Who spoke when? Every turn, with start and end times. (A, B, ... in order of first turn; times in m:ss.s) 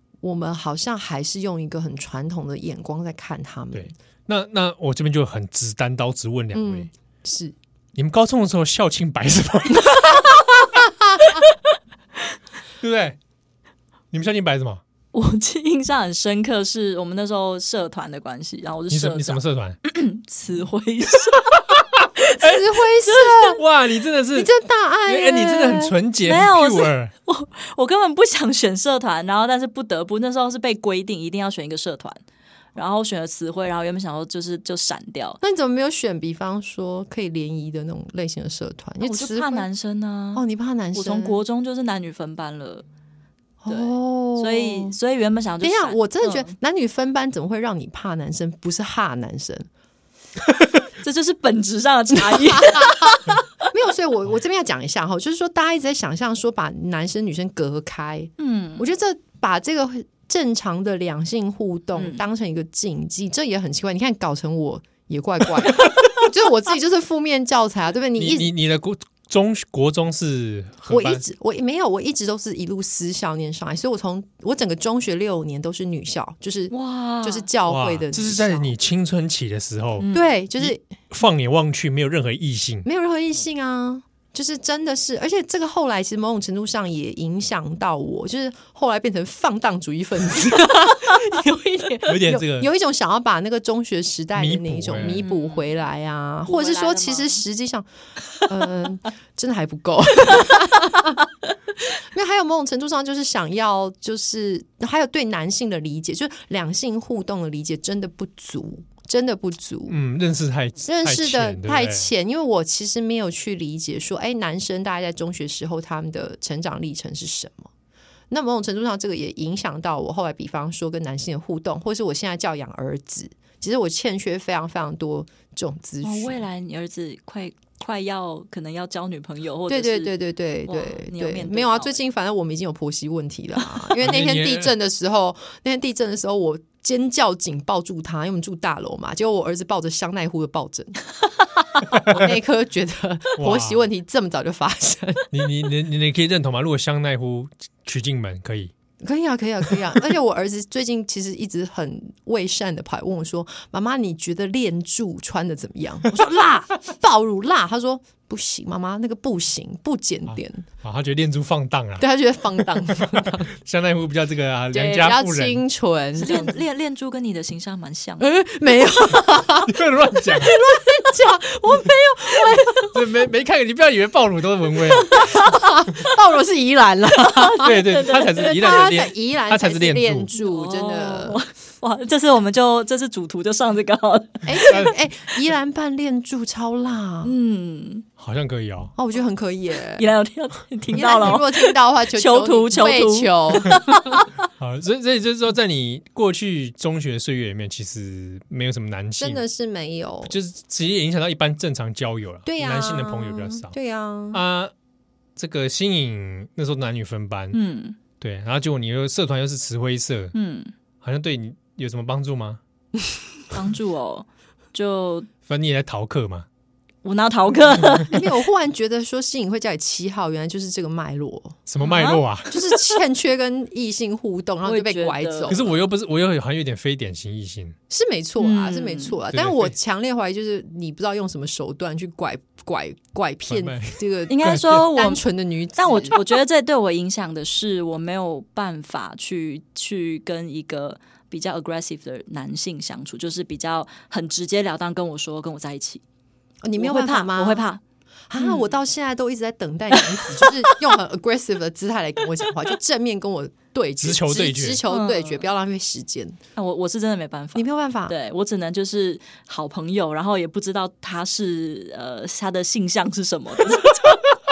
0:00.2-0:03.9 A
0:03.7-0:06.9 B
0:06.5-0:07.6 A
0:08.0-0:10.4 B
0:12.8-0:13.2 B
0:14.1-0:14.8 B
0:15.1-0:22.4 C
0:18.9-0:19.8 B
0:22.4-0:23.6 A
0:22.4-0:22.6 B
0:23.1-0:23.5 C
0:23.6-0:24.5 B
0:24.4-0:26.0 A
0:25.1-0:27.1 B
0:26.2-0:32.2 C
0:32.8-0:35.4 C
0:35.4-0:39.7 A
0:39.0-0:42.9 C
0:40.4-0:41.4 A
0:43.6-0:45.0 A
0:43.7-0:46.5 C
0:45.6-0:49.7 A
0:51.0-0:53.5 C
0:52.2-1:08.5 A
0:58.4-0:58.8 C
1:02.0-1:02.2 C
1:08.2-1:11.2 B
1:10.9-1:18.7 A
1:16.7-1:17.5 C
1:17.7-1:22.9 B
1:20.0-1:20.3 C
1:20.1-1:20.8 A
1:22.8-1:37.9 A
1:32.1-1:32.7 B
1:34.4-1:35.2 B
1:35.0-1:35.7 C
1:36.5-1:37.4 C
1:38.4-1:41.2 A
1:41.8-1:50.0 A
1:49.9-1:52.1 B
1:50.8-1:57.7 A
1:58.3-2:06.4 A
2:06.0-2:10.2 C
2:09.7-2:21.0 A
2:10.7-2:12.0 C
2:14.0-2:14.7 B
2:21.8-2:25.3 A
2:23.4-2:23.8 B
2:25.3-2:28.7 B
2:29.0-2:40.7 A
2:40.3-2:45.6 B
2:42.0-2:43.5 A
2:44.7-2:46.6 A
2:46.2-2:48.3 C
2:48.2-2:53.1 A
2:49.6-2:50.6 B
2:52.9-2:55.4 B
2:55.0-3:01.4 A
2:57.2-2:58.8 C
2:57.6-3:00.3 B
3:00.4-3:04.9 C
3:04.4-3:07.3 A
3:04.7-3:04.9 B
3:07.2-3:08.1 C
3:08.2-3:08.9 B
3:09.0-3:10.0 A
3:10.0-3:14.3 C
3:10.9-3:14.2 A
3:14.6-3:19.4 B
3:19.2-3:20.3 A
3:20.3-3:23.7 B
3:22.4-3:24.4 A
3:24.3-3:24.7 B
3:25.4-3:27.6 B
3:27.5-3:28.0 C
3:28.2-3:30.3 B
3:30.3-3:30.7 C
3:31.0-3:32.6 B
3:33.5-3:35.3 C
3:35.5-3:36.5 B
3:37.0-3:38.4 C
3:38.1-3:41.6 A
3:41.7-3:42.6 B
3:41.8-3:42.2 C
3:42.5-3:45.7 A
3:44.6-3:45.6 C
3:45.5-3:47.8 B
3:47.9-3:56.2 A
3:48.4-3:49.2 C
3:49.3-3:49.7 B
3:53.5-3:54.9 B
3:54.3-3:55.2 C
3:55.8-4:06.0 C
4:06.6-4:07.7 A
4:06.8-4:07.8 C
4:08.3-4:16.4 A
4:08.4-4:08.7 C
4:10.1-4:10.8 C
4:14.0-4:14.8 B
4:14.9-4:15.5 C
4:16.6-4:24.2 C
4:17.6-4:18.2 A